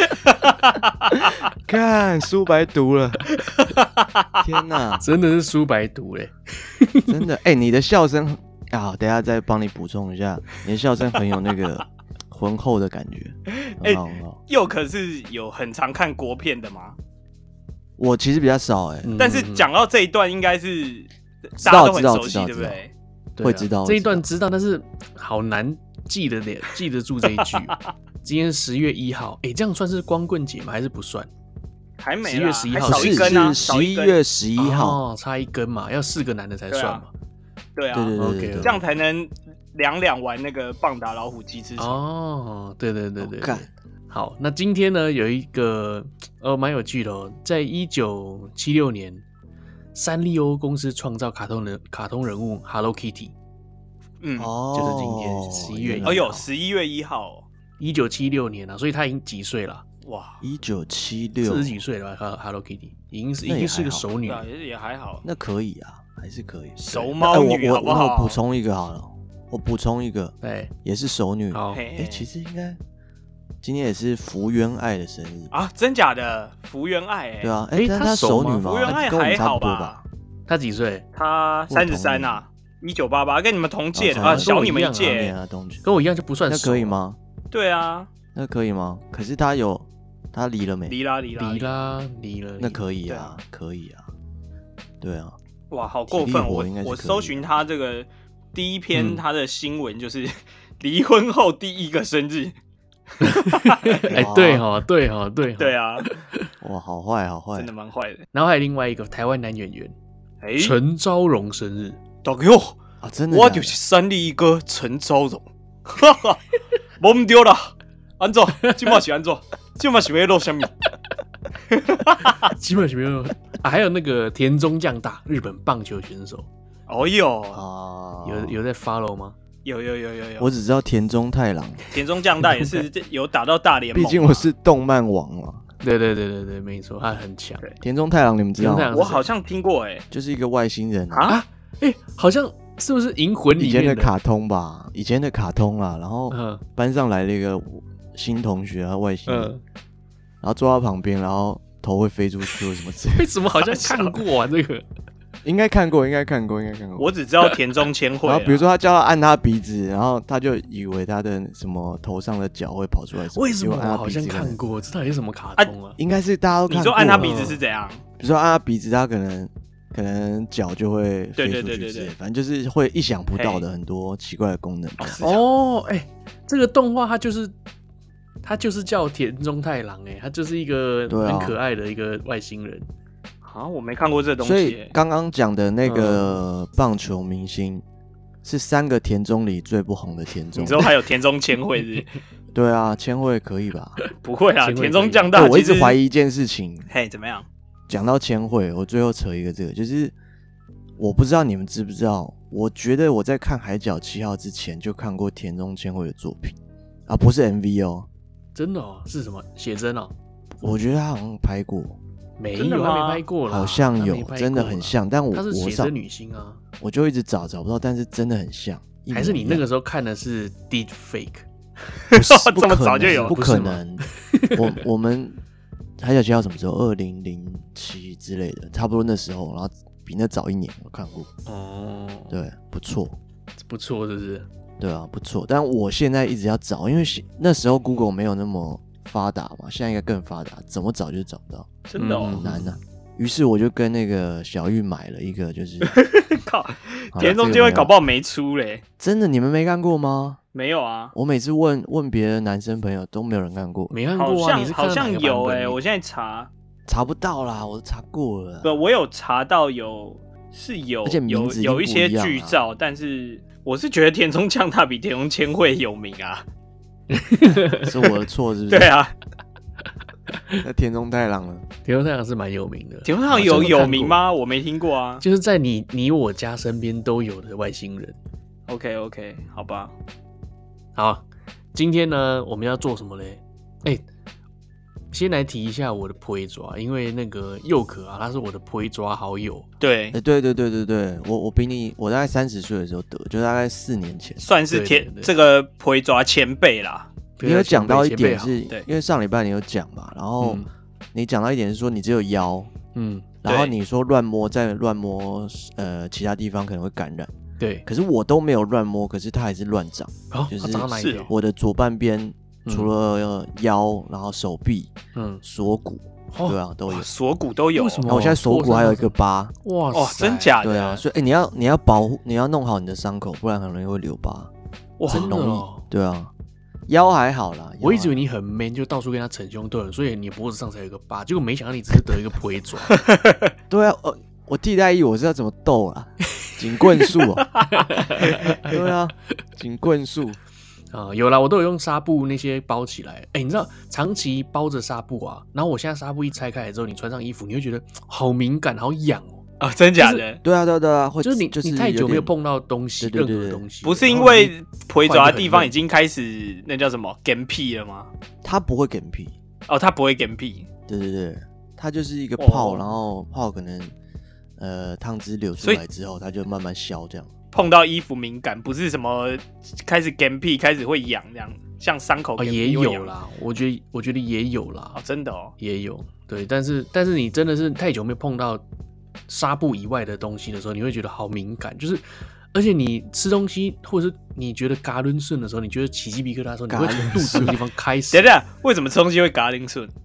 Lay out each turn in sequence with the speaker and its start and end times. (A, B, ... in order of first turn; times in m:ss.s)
0:00.2-0:01.3 A
0:01.4-0:03.3 B
0:03.5-0:04.4 A
0:04.4-0:05.0 B
0:05.0-0:07.1 C
0:07.1-0:14.4 B
0:13.5-0:17.0 A
0:18.0-0:19.1 B
0:19.0-0:19.7 C
0:19.2-0:22.9 A
0:21.6-0:22.8 B
0:23.4-0:31.3 C
0:23.4-0:24.2 B
0:27.3-0:27.8 A
0:32.0-0:34.2 A
0:32.2-0:33.6 C
0:32.8-0:35.0 B
0:34.6-0:37.1 C
0:36.7-0:37.0 A
0:37.8-0:42.0 A
0:37.9-0:38.8 B
0:38.1-0:38.8 C
0:41.8-0:49.2 C
0:43.2-0:43.7 B
0:49.9-0:53.3 C
0:54.2-0:54.5 A
0:54.4-0:56.5 B
0:54.7-0:56.3 C
0:56.0-0:57.4 A
0:57.8-0:59.8 C
1:00.0-1:00.4 A
1:00.4-1:01.8 B
1:01.4-1:04.4 C
1:03.4-1:04.0 B
1:04.2-1:05.2 A
1:05.2-1:12.8 B
1:06.8-1:08.4 A
1:10.4-1:10.7 C
1:11.5-1:11.8 C
1:11.7-1:12.3 A
1:13.6-1:15.5 B
1:15.5-1:17.5 A
1:17.4-1:20.0 B
1:17.7-1:19.0 C
1:18.6-1:20.0 A
1:20.5-1:21.0 C
1:21.1-1:25.3 A
1:21.7-1:22.4 B
1:23.9-1:25.8 B
1:24.1-1:25.2 C
1:25.8-1:27.0 C
1:26.5-1:27.2 B
1:27.5-1:28.1 A
1:28.3-1:31.0 B
1:30.9-1:31.7 A
1:31.4-1:32.8 C
1:32.6-1:34.0 B
1:33.1-1:33.3 A
1:35.0-1:35.3 B
1:35.7-1:42.5 A
1:36.1-1:37.4 B
1:38.9-1:39.2 C
1:43.2-1:44.0 A
1:43.2-1:46.5 C
1:44.1-1:44.6 B
1:45.6-1:46.1 A
1:46.6-1:47.7 B
1:47.6-1:48.2 A
1:48.3-1:49.9 C
1:50.4-1:50.8 A
1:50.6-1:52.0 C
1:52.2-1:52.8 A
1:53.0-1:53.8 B
1:53.3-1:56.4 A
1:57.0-2:00.7 A
1:58.6-1:59.0 C
2:01.7-2:02.5 A
2:02.4-2:06.5 C
2:06.9-2:07.6 A
2:07.5-2:08.6 B
2:08.2-2:09.4 C
2:09.6-2:10.5 A
2:10.4-2:11.8 B
2:11.9-2:14.5 A
2:12.5-2:12.8 C
2:13.9-2:15.6 B
2:15.8-2:17.6 C
2:17.8-2:18.9 B
2:18.6-2:19.2 C
2:18.9-2:20.0 A
2:20.1-2:21.3 B
2:21.1-2:21.4 A
2:21.3-2:24.1 C
2:23.6-2:29.5 B
2:26.3-2:26.6 C
2:29.2-2:29.6 C
2:30.4-2:33.3 B
2:33.1-2:34.8 C
2:33.5-2:34.2 A
2:35.4-2:37.1 B
2:37.0-2:38.7 A
2:38.2-2:44.6 B
2:43.3-2:46.0 C
2:46.0-2:47.4 B
2:46.7-2:48.0 A
2:47.2-2:47.6 C
2:48.2-2:55.2 B
2:51.4-2:52.1 A
2:53.4-2:53.6 A
2:55.0-2:55.4 A
2:55.2-2:57.5 C
2:58.4-3:02.9 C
3:01.1-3:01.6 B
3:03.4-3:04.9 A
3:04.4-3:07.8 B
3:05.8-3:06.4 C
3:08.4-3:10.9 B
3:10.5-3:12.1 A
3:12.5-3:14.0 B
3:14.2-3:16.0 A
3:14.6-3:15.3 C
3:15.3-3:16.9 B
3:16.9-3:17.5 A
3:17.9-3:20.1 B
3:21.0-3:28.1 B
3:28.5-3:30.1 C
3:30.6-3:32.0 B
3:32.4-3:36.6 C
3:32.5-3:33.2 A
3:33.4-3:35.9 B
3:36.8-3:39.6 B
3:39.1-3:41.4 C
3:42.1-3:43.3 A
3:42.1-3:45.4 B
3:43.0-3:44.8 C
3:46.0-3:51.3 B
3:51.5-3:52.4 C
3:52.3-3:53.2 B
3:53.6-3:54.5 C
3:54.8-4:01.7 B
4:01.9-4:02.4 A
4:02.0-4:02.7 C
4:02.3-4:05.9 B
4:05.8-4:08.8 A
4:07.1-4:07.9 B
4:09.0-4:10.4 B
4:10.5-4:11.1 A
4:11.1-4:13.9 B
4:13.9-4:15.8 C
4:14.1-4:16.5 A
4:16.9-4:18.7 B
4:18.6-4:26.4 A
4:21.0-4:22.6 B
4:27.1-4:27.9 C
4:27.7-4:28.9 B
4:28.7-4:29.1 A
4:30.3-4:30.6 C
4:30.6-4:31.6 B
4:31.8-4:34.2 C
4:33.0-4:35.2 A
4:33.3-4:33.8 B
4:35.2-4:38.2 C
4:38.7-4:39.9 A
4:41.0-4:44.0 C
4:45.1-4:49.7 C
4:49.8-4:50.2 A
4:50.1-4:54.4 B
4:54.4-4:57.1 A
4:54.7-4:55.3 C
4:57.4-4:58.6 C
4:57.4-5:02.7 B
5:00.4-5:00.7 C
5:02.9-5:03.3 C
5:03.4-5:07.3 B
5:03.4-5:03.7 A
5:07.6-5:07.8 C
5:07.8-5:17.1 B
5:10.3-5:11.3 C
5:10.9-5:11.3 A
5:12.6-5:12.9 C
5:15.1-5:15.4 C
5:16.3-5:16.6 C
5:16.9-5:18.1 A
5:17.7-5:20.5 C
5:18.1-5:19.5 B
5:19.9-5:21.0 A
5:20.6-5:24.5 B
5:25.0-5:25.4 A
5:25.1-5:25.8 C
5:25.1-5:26.3 B
5:26.9-5:28.2 B
5:27.8-5:32.9 C
5:32.8-5:33.5 A
5:33.7-5:37.5 B
5:37.7-5:38.8 C
5:38.4-5:40.4 B
5:40.9-5:49.4 C
5:49.6-5:50.4 A
5:50.4-5:52.3 B
5:51.2-5:55.7 C
5:53.0-5:53.6 B
5:53.8-5:58.1 A
5:58.4-5:59.3 B
5:59.7-6:00.7 A
6:00.9-6:03.9 B
6:02.4-6:02.8 A
6:04.6-6:07.3 B
6:07.5-6:13.1 A
6:12.4-6:15.0 C
6:14.9-6:15.5 A
6:15.6-6:18.6 C
6:19.3-6:28.3 C
6:26.7-6:27.6 B
6:28.1-6:29.9 A